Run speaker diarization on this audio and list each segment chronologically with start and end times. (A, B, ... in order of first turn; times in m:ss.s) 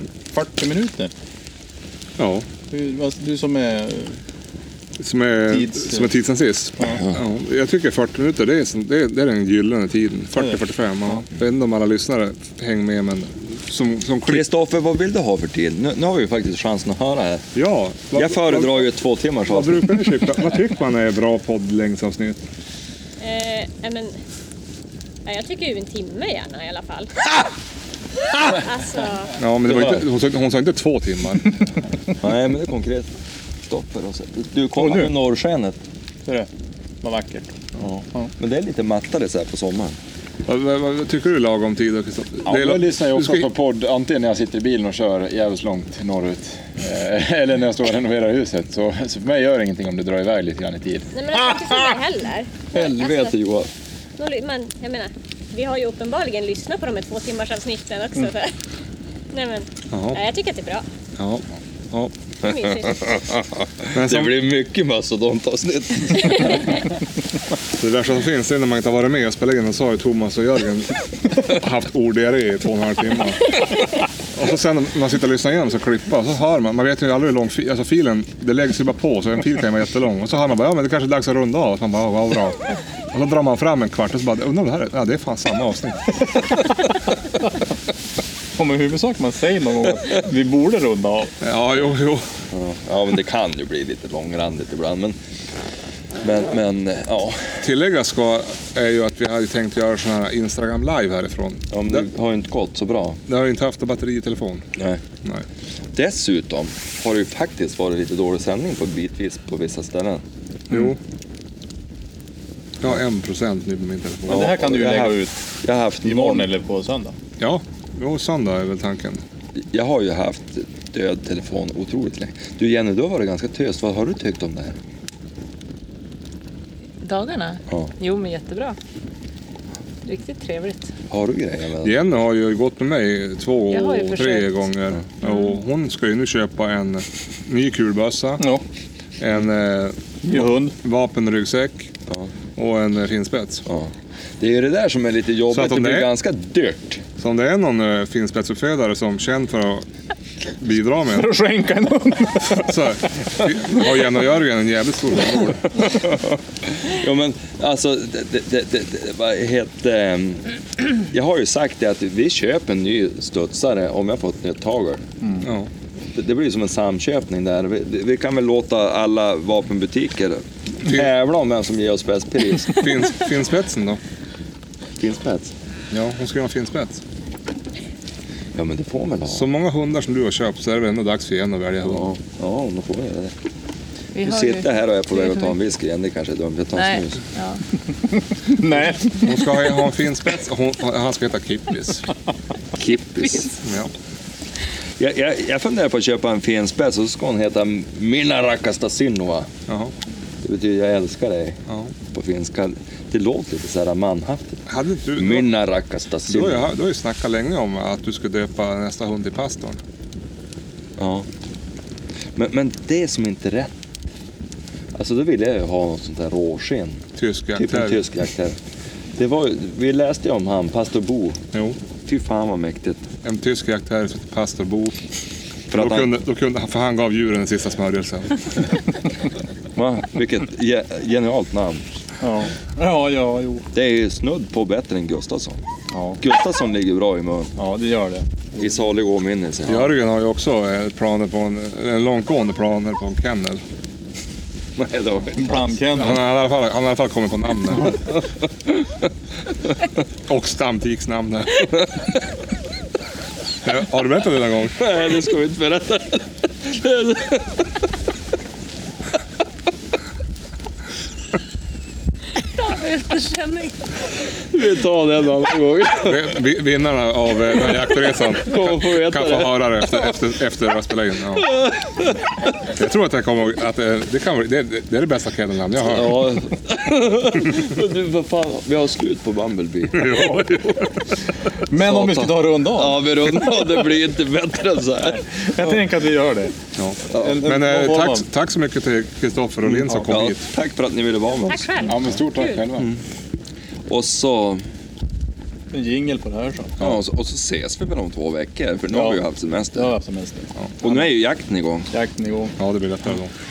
0:00.3-0:01.1 A
0:02.2-0:02.4 B
0:02.7-0:04.2 A
0:05.0-0:14.4 B
0:05.5-0:06.1 A
0:14.3-0:17.4 C
0:17.5-0:18.9 B
0:18.2-0:20.0 C
0:19.4-0:22.4 B
0:23.2-0:24.2 D
0:25.2-0:27.1 D
0:28.4-0:29.3 D
0:29.4-0:31.7 B
0:29.7-0:30.0 C
0:32.2-0:33.1 C
0:33.6-0:35.8 C
0:34.8-0:35.1 A
0:37.0-0:37.5 A
0:37.8-0:40.0 C
0:40.4-0:43.5 B
0:42.4-0:51.1 E
0:51.1-0:53.3 D
0:52.7-0:53.7 C
0:54.2-0:58.6 D
0:59.3-1:00.8 D
0:59.9-1:00.2 B
1:01.2-1:02.1 B
1:02.4-1:03.2 D
1:03.0-1:06.7 C
1:03.9-1:04.4 B
1:06.2-1:06.6 D
1:07.8-1:13.6 B
1:14.3-1:26.2 B
1:28.6-1:31.3 A
1:31.4-1:32.2 B
1:32.5-1:35.2 C
1:36.2-1:37.5 C
1:37.6-1:42.1 B
1:41.7-1:43.2 C
1:43.3-1:44.7 B
1:45.9-1:50.2 C
1:50.7-1:51.0 B
1:52.8-1:54.5 B
1:54.3-1:56.5 C
1:54.3-1:55.4 A
1:56.0-1:57.1 A
1:57.4-1:59.2 B
1:59.6-2:04.8 C
2:07.0-2:08.8 F
2:10.0-2:10.9 F
2:11.1-2:11.9 C
2:11.8-2:18.4 B
2:13.7-2:14.5 F
2:15.2-2:15.5 F
2:19.2-2:21.9 B
2:20.2-2:20.7 A
2:22.6-2:23.6 B
2:23.7-2:27.0 C
2:25.5-2:26.1 B
2:27.2-2:29.8 B
2:30.6-2:31.3 B
2:31.0-2:32.7 A
2:32.5-2:35.8 B
2:35.8-2:45.0 C
2:45.4-2:45.7 B
2:46.1-2:52.8 C
2:52.7-2:54.0 B
2:55.0-2:55.5 C
2:55.9-2:57.0 B
2:58.5-2:59.4 C
2:59.3-3:02.1 B
3:01.8-3:03.3 C
3:04.1-3:05.6 F
3:04.2-3:07.2 C
3:06.7-3:07.6 F
3:08.1-3:09.4 A
3:09.2-3:12.1 B
3:12.8-3:13.5 C
3:13.6-3:13.9 B
3:15.0-3:19.5 C
3:19.7-3:19.9 B
3:20.4-3:24.6 C
3:21.7-3:21.9 B
3:24.7-3:25.5 B
3:25.2-3:26.7 C
3:26.3-3:29.8 B
3:31.0-3:31.3 C
3:32.3-3:33.7 C
3:34.9-3:37.0 C
3:37.2-3:38.0 B
3:37.6-3:38.6 C
3:39.2-3:41.4 C
3:42.0-3:43.0 C
3:43.2-3:45.0 B
3:45.7-3:46.1 C
3:45.7-3:48.7 B
3:49.7-3:51.8 C
3:52.2-3:53.7 A
3:53.7-3:55.6 C
3:55.9-3:56.2 A
3:56.2-3:57.5 C
3:57.6-3:58.6 A
3:58.6-3:59.9 C
3:59.7-4:03.6 B
4:04.8-4:05.6 C
4:05.4-4:06.2 A
4:06.0-4:08.0 B
4:10.3-4:11.7 B
4:13.6-4:14.8 B
4:14.8-4:17.6 C
4:22.6-4:23.9 F
4:24.5-4:26.4 C
4:26.0-4:31.5 B
4:28.4-4:30.1 C
4:31.4-4:32.2 C
4:32.7-4:36.2 B
4:35.8-4:40.7 C
4:39.9-4:41.2 B
4:41.7-4:43.6 A
4:41.8-4:45.2 C
4:45.0-4:46.5 A
4:46.8-4:50.4 B
4:47.1-4:47.4 C
4:47.1-4:48.2 A
4:49.7-4:50.1 A
4:50.0-4:51.9 C
4:51.4-4:52.6 D
4:51.8-4:52.9 E
4:52.7-4:53.0 C
4:53.9-4:54.6 C
4:55.7-4:56.7 A
4:56.8-4:59.9 C
4:58.9-4:59.2 A
4:59.7-5:01.0 A
5:00.8-5:01.9 C
5:01.9-5:02.5 A
5:02.6-5:03.3 B